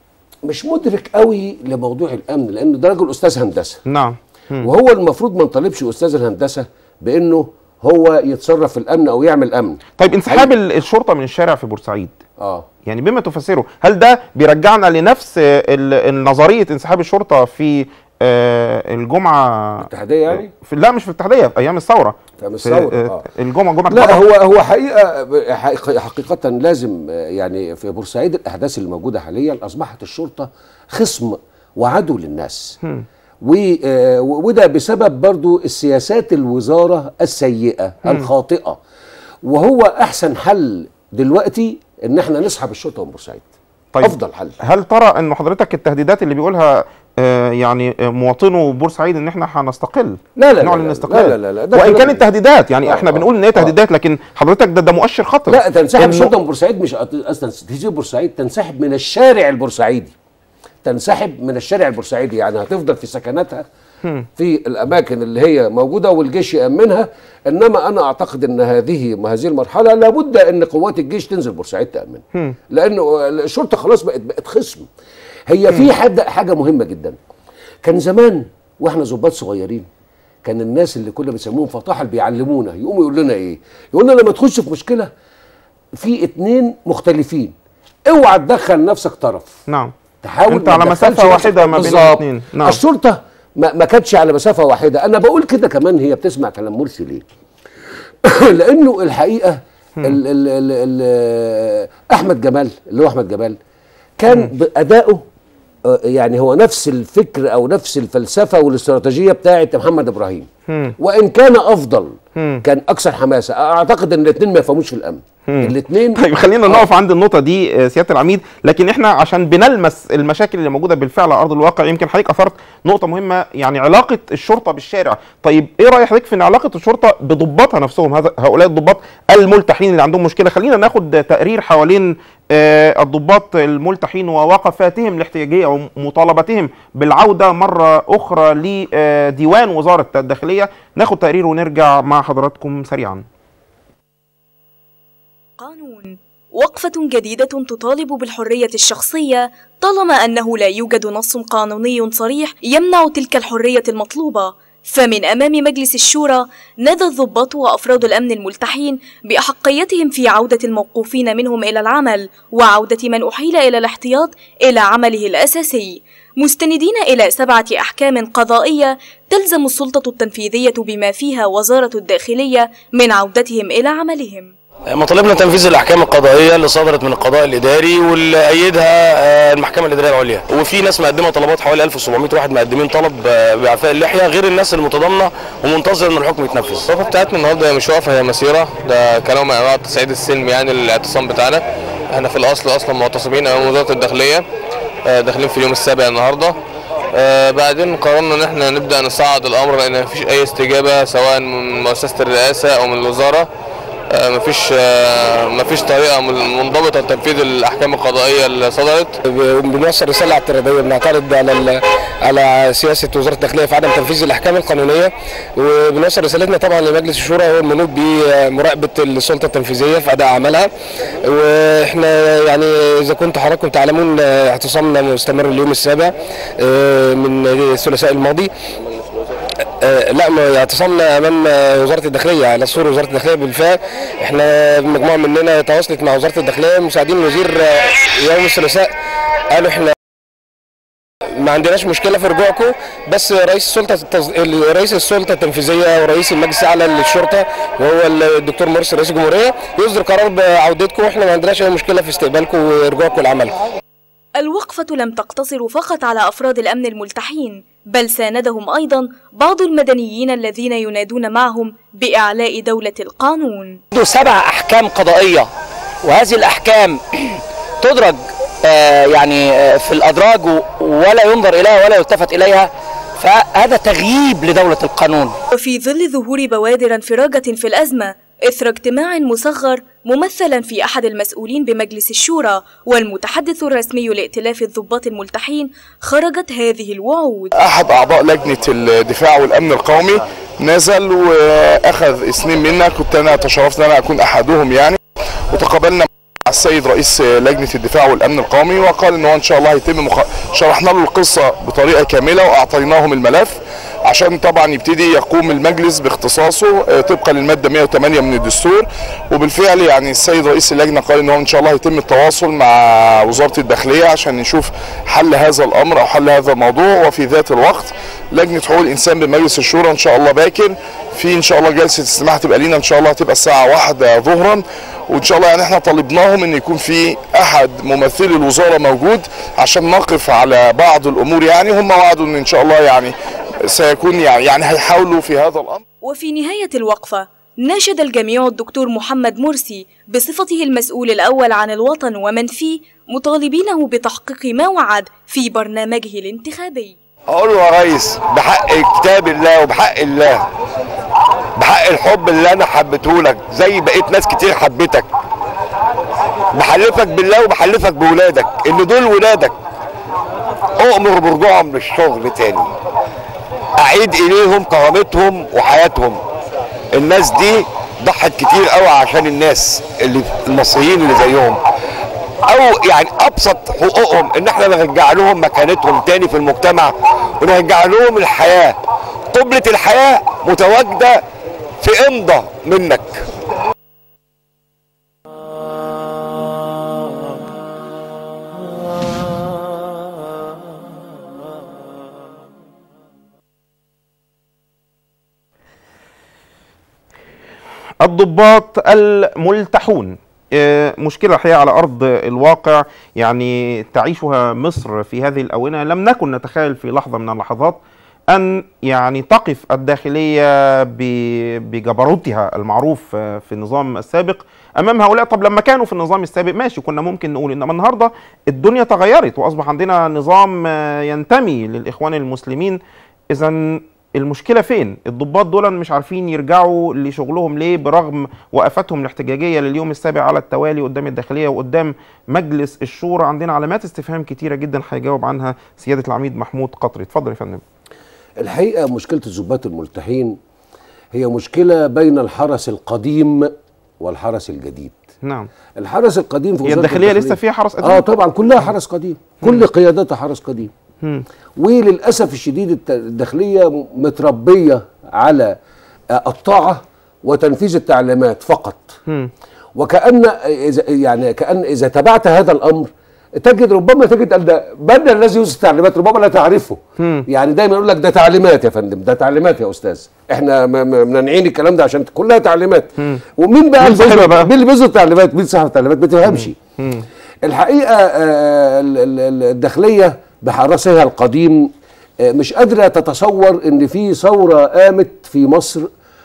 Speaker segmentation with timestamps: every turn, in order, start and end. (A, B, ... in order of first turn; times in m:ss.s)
0:00.4-0:03.8 A
0:03.9-0:04.7 B
0:04.6-0:10.5 A
0:10.0-0:12.1 B
0:12.4-0:12.7 A
0:12.8-0:24.3 B
0:19.8-0:20.5 A
0:22.4-0:23.2 A
0:23.9-0:32.8 A
0:33.4-0:38.8 A
0:39.4-0:43.4 A
0:43.9-0:56.3 B
0:44.0-0:44.6 A
0:50.4-0:52.2 A
0:52.8-0:53.7 A
0:55.5-1:00.1 A
1:00.8-1:03.6 A
1:04.4-1:14.9 A
1:15.5-1:17.2 A
1:17.8-1:19.9 A
1:20.4-1:25.1 A
1:26.0-1:27.5 A
1:28.1-1:29.6 A
1:30.2-1:37.2 A
1:30.5-1:32.8 B
1:38.2-1:43.6 A
1:44.2-1:45.2 A
1:45.9-1:50.5 A
1:50.7-1:51.0 B
1:51.0-1:56.9 A
1:52.4-1:52.6 B
1:55.5-2:23.2 B
2:25.6-2:54.5 C
2:54.9-3:06.9 D
3:06.9-3:14.4 E
3:15.0-3:16.5 E
3:17.1-3:23.5 E
3:24.1-3:29.2 E
3:29.2-3:40.7 D
3:41.2-3:48.5 D
3:49.8-3:58.9 D
3:59.5-3:59.9 D
4:01.4-4:13.5 D
4:14.4-4:23.8 C
4:23.9-4:25.4 F
4:26.0-4:27.0 F
4:27.8-4:32.7 F
4:33.2-4:35.3 F
4:35.5-4:47.5 C
4:47.6-4:55.0 G
4:55.5-5:33.1 G
5:33.6-5:35.8 G
5:36.0-5:47.0 C
5:47.3-5:50.4 H
5:51.6-5:55.1 H
5:56.5-5:59.6 H
6:00.8-6:02.7 H
6:03.8-6:06.2 H
6:06.9-6:11.6 H
6:12.4-6:18.8 H
6:19.3-6:21.2 H
6:21.8-6:23.2 H
6:38.0-6:47.8 B
6:48.3-7:02.8 B
7:03.3-7:17.6 B
7:18.4-7:20.4 A
7:21.1-7:25.0 A
7:25.2-7:25.5 B
7:25.8-7:30.7 A
7:26.6-7:28.0 B
7:31.6-7:35.6 A
7:36.1-7:39.0 A
7:39.8-7:56.5 A
7:47.0-7:47.2 B
7:53.8-7:54.5 B
7:56.2-7:57.0 B
7:57.4-8:01.7 A
8:02.2-8:05.9 A